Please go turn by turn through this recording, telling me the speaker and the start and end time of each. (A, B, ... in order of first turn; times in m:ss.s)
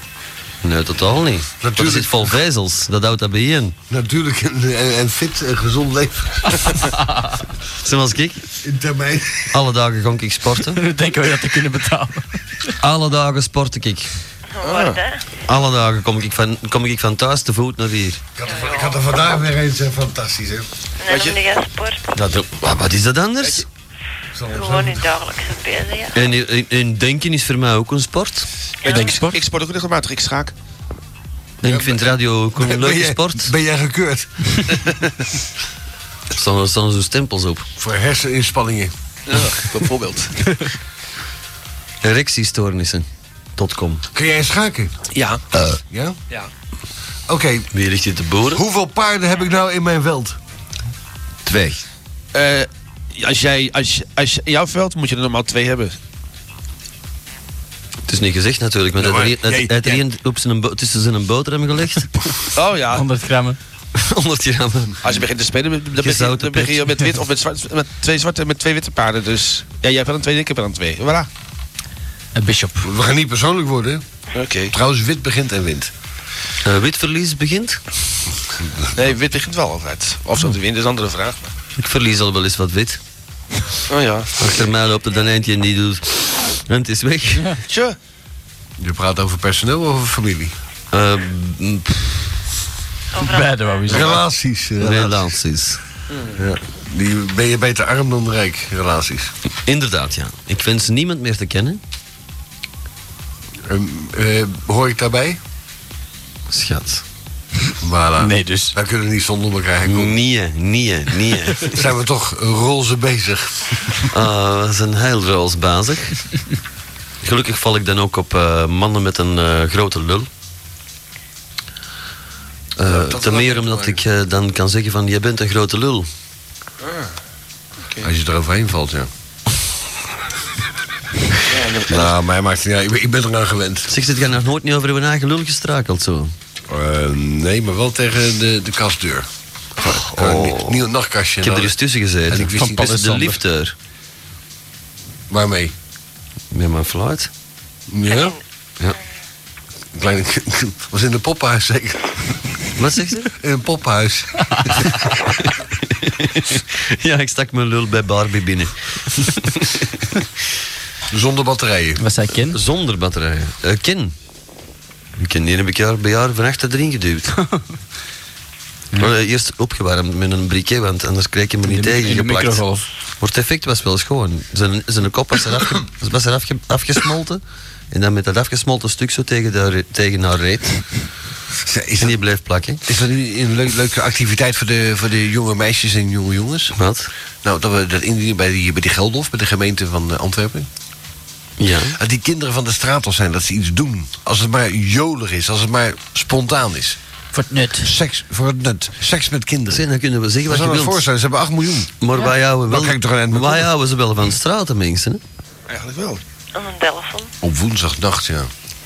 0:00.6-0:03.8 A
0:01.6-0:02.4 B
0:03.9-0:06.6 B
0:07.8-0:08.5 A
0:08.6-0:09.6 B
0:09.5-0:10.8 A
0:10.6-0:12.4 C
0:12.8-0:14.1 A
0:14.6-0:15.3 D
0:14.6-0:15.0 E
0:15.5-0:18.2 A
0:18.4-0:20.7 B
0:18.4-0:18.9 D
0:21.0-0:22.2 D
0:22.2-0:23.7 A
0:24.3-0:25.0 B
0:24.5-0:26.2 D
0:26.1-0:28.5 A
0:28.8-0:29.2 D
0:28.8-0:29.4 C
0:29.0-0:30.5 E
0:31.6-0:33.5 A
0:31.6-0:34.3 B
0:36.3-0:37.7 A
0:37.8-0:38.9 B
0:39.3-0:40.4 E
0:42.0-0:44.0 A
0:44.1-0:44.9 B
0:45.1-0:45.4 E
0:45.5-0:45.8 A
0:45.9-0:46.2 B
0:47.3-0:47.7 B
0:47.7-0:48.6 A
0:48.5-0:50.4 B
0:51.5-0:51.8 A
0:52.3-0:56.0 E
0:58.1-1:02.1 A
0:59.0-1:00.0 B
1:02.6-1:03.1 E
1:02.9-1:03.6 C
1:04.0-1:05.0 A
1:05.0-1:11.3 E
1:06.0-1:06.9 A
1:12.4-1:12.9 C
1:12.8-1:14.0 B
1:14.3-1:14.7 E
1:14.7-1:15.9 B
1:16.6-1:17.8 A
1:19.0-1:21.5 E
1:21.8-1:23.0 A
1:23.9-1:24.3 E
1:24.4-1:27.5 A
1:27.7-1:28.0 E
1:28.8-1:30.6 B
1:30.9-1:32.3 A
1:33.1-1:34.1 D
1:33.2-1:34.2 C
1:33.9-1:35.4 B
1:34.8-1:35.8 A
1:36.1-1:36.4 E
1:36.4-1:39.3 B
1:39.7-1:41.8 A
1:43.7-1:45.4 B
1:46.5-1:47.0 A
1:47.8-1:50.2 B
1:48.2-1:48.7 C
1:49.8-1:51.8 A
1:51.7-1:54.0 B
1:54.1-1:56.1 A
1:57.2-2:00.3 A
2:02.8-2:06.1 A
2:02.8-2:04.0 B
2:08.0-2:09.1 B
2:11.5-2:12.1 E
2:11.9-2:13.9 B
2:13.9-2:16.3 A
2:16.7-2:19.3 B
2:19.8-2:21.8 B
2:19.8-2:20.8 A
2:21.4-2:23.7 A
2:22.3-2:23.0 B
2:22.6-2:23.3 C
2:25.3-2:25.7 B
2:26.5-2:27.3 A
2:27.9-2:28.4 B
2:28.0-2:28.4 D
2:29.9-2:32.2 B
2:32.8-2:33.4 A
2:33.4-2:34.4 B
2:36.0-2:39.9 A
2:41.1-2:42.0 B
2:42.0-2:42.6 C
2:42.5-2:44.1 A
2:45.2-2:47.3 A
2:49.0-2:52.6 A
2:51.6-2:52.8 C
2:53.2-3:00.8 A
3:01.6-3:02.2 B
3:02.0-3:02.8 A
3:02.9-3:06.8 B
3:06.8-3:07.1 A
3:07.4-3:10.7 B
3:11.6-3:12.0 A
3:11.9-3:17.0 B
3:17.3-3:17.9 C
3:17.8-3:19.8 B
3:19.7-3:21.0 A
3:20.5-3:21.9 B
3:22.0-3:25.2 A
3:22.7-3:23.7 B
3:25.7-3:26.2 E
3:26.5-3:27.3 D
3:27.4-3:28.5 B